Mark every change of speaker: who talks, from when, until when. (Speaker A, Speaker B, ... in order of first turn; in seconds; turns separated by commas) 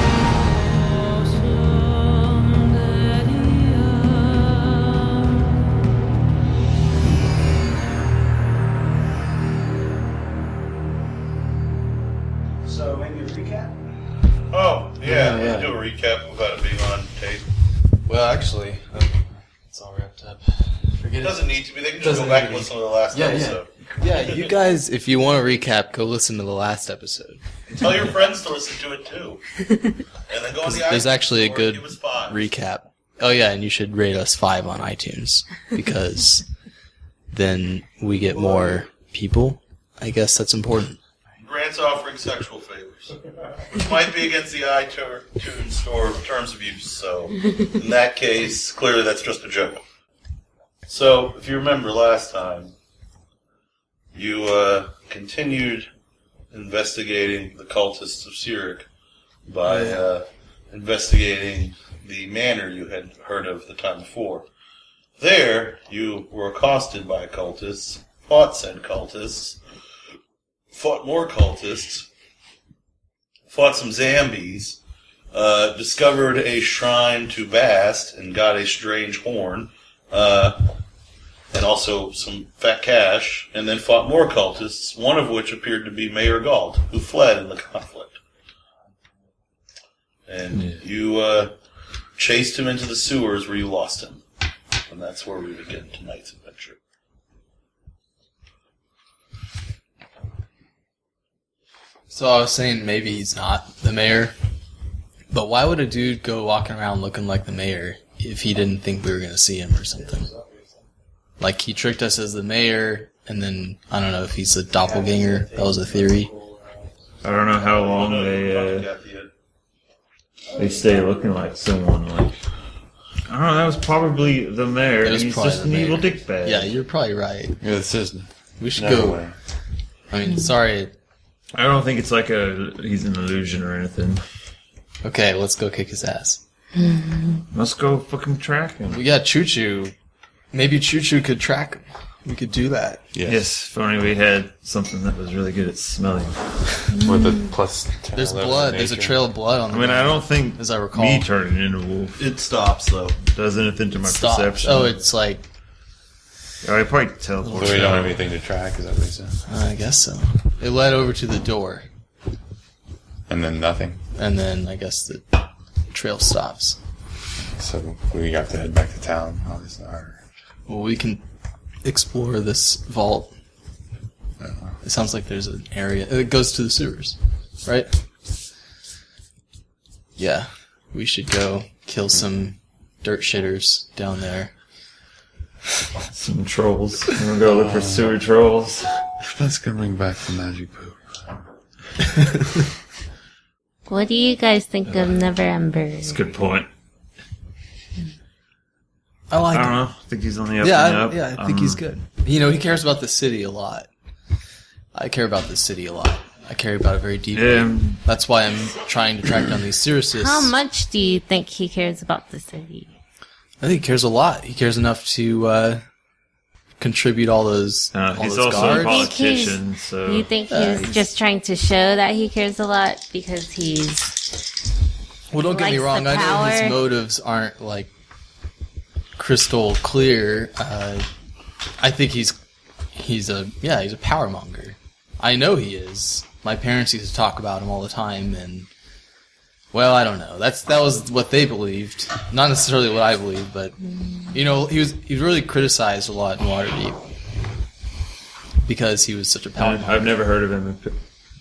Speaker A: 12.7-13.8, Speaker B: 14.5-17.5, Speaker C: 15.0-15.7, Speaker C: 18.1-19.1, Speaker C: 19.7-20.4, Speaker C: 20.9-21.5, Speaker B: 21.2-23.7, Speaker C: 22.0-27.4, Speaker B: 27.7-29.4, Speaker B: 30.3-32.4, Speaker C: 30.6-36.5, Speaker C: 37.3-41.0, Speaker B: 41.4-43.1, Speaker B: 43.7-49.8, Speaker B: 50.9-52.7, Speaker B: 54.1-55.9, Speaker B: 56.5-58.9, Speaker B: 59.5-64.5, Speaker D: 59.7-59.9, Speaker B: 65.2-69.6, Speaker B: 70.7-72.1, Speaker B: 73.5-74.8, Speaker B: 75.3-80.6, Speaker B: 81.5-88.2, Speaker B: 90.3-91.5, Speaker D: 90.5-90.8, Speaker B: 92.2-94.2, Speaker B: 94.9-96.8, Speaker C: 102.1-104.3, Speaker C: 105.3-110.3, Speaker C: 111.4-116.3, Speaker A: 114.8-116.5, Speaker D: 117.2-118.9, Speaker B: 117.6-119.3, Speaker D: 120.5-122.4, Speaker D: 123.3-126.7, Speaker C: 125.0-127.6, Speaker E: 127.6-129.3, Speaker C: 128.6-129.2, Speaker C: 130.1-130.9, Speaker D: 131.5-134.2, Speaker C: 135.0-136.4, Speaker F: 136.8-137.4, Speaker D: 137.5-139.0, Speaker C: 138.9-139.9, Speaker C: 140.5-143.0, Speaker E: 143.1-143.5, Speaker D: 143.3-146.8, Speaker F: 146.9-147.5, Speaker E: 147.0-149.2, Speaker C: 148.1-151.3, Speaker D: 149.7-152.2, Speaker B: 152.2-153.2, Speaker D: 153.3-155.0, Speaker C: 154.0-155.5, Speaker D: 156.6-158.2, Speaker C: 157.4-158.1, Speaker E: 157.5-159.4, Speaker C: 159.5-161.9, Speaker E: 163.3-164.0, Speaker C: 164.2-166.8, Speaker E: 167.5-170.2, Speaker C: 170.7-171.2, Speaker C: 171.8-173.3, Speaker E: 174.4-174.8, Speaker C: 174.8-177.9, Speaker C: 180.2-184.5, Speaker D: 186.1-188.9, Speaker E: 187.5-188.2, Speaker E: 189.2-191.0, Speaker F: 193.9-196.2, Speaker D: 194.8-195.2, Speaker D: 196.0-196.7, Speaker C: 199.3-199.8, Speaker D: 199.5-201.8, Speaker C: 200.6-203.9, Speaker C: 204.9-210.6, Speaker D: 207.3-208.0, Speaker F: 210.1-212.9, Speaker C: 213.6-215.8, Speaker C: 216.8-219.1, Speaker D: 217.9-220.3, Speaker F: 218.6-224.2, Speaker C: 220.5-221.0, Speaker C: 225.3-227.9, Speaker F: 225.4-226.8, Speaker C: 229.2-231.1, Speaker C: 231.8-232.4, Speaker C: 232.9-238.7, Speaker C: 239.7-243.8, Speaker C: 244.3-247.0, Speaker C: 248.6-250.2, Speaker D: 249.6-251.0